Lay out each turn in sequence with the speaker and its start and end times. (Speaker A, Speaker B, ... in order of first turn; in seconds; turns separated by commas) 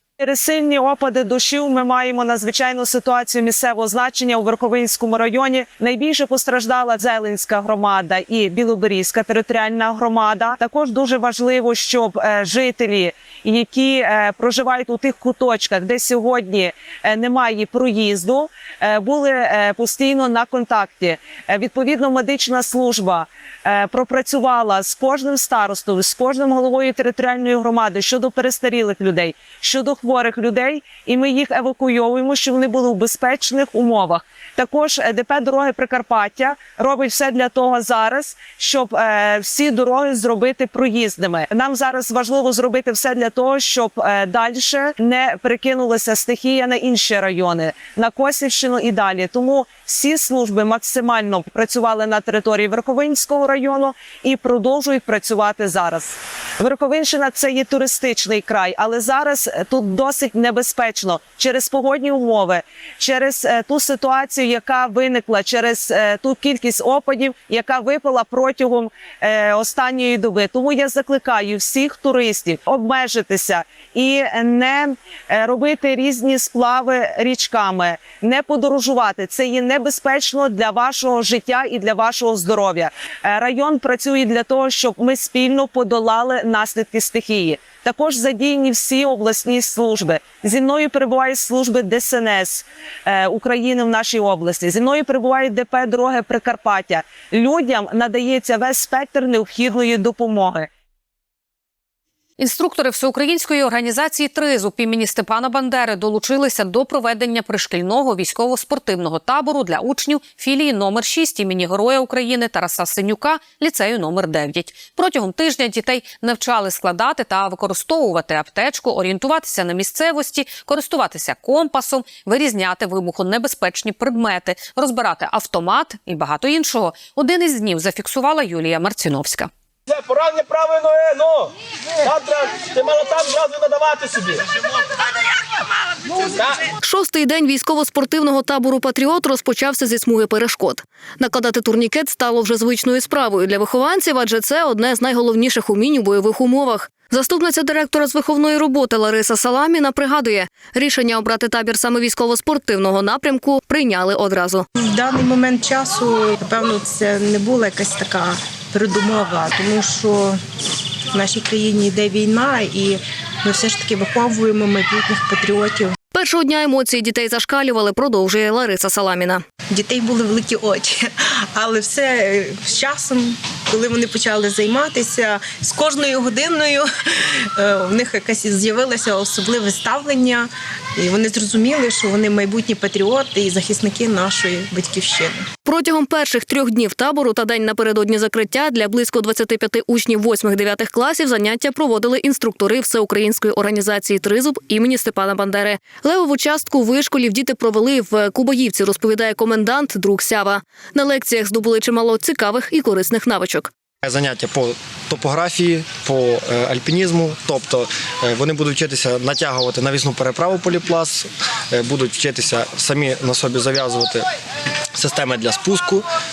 Speaker A: 0.2-100.7, Speaker B: 102.4-129.5, Speaker C: 129.9-134.5, Speaker C: 136.3-136.6, Speaker D: 136.8-154.6, Speaker E: 154.8-160.4, Speaker E: 161.1-165.9, Speaker D: 166.1-169.4, Speaker E: 169.7-171.0, Speaker E: 171.5-176.8, Speaker E: 177.6-185.4, Speaker D: 185.7-203.7, Speaker F: 204.0-214.2, Speaker F: 215.0-216.0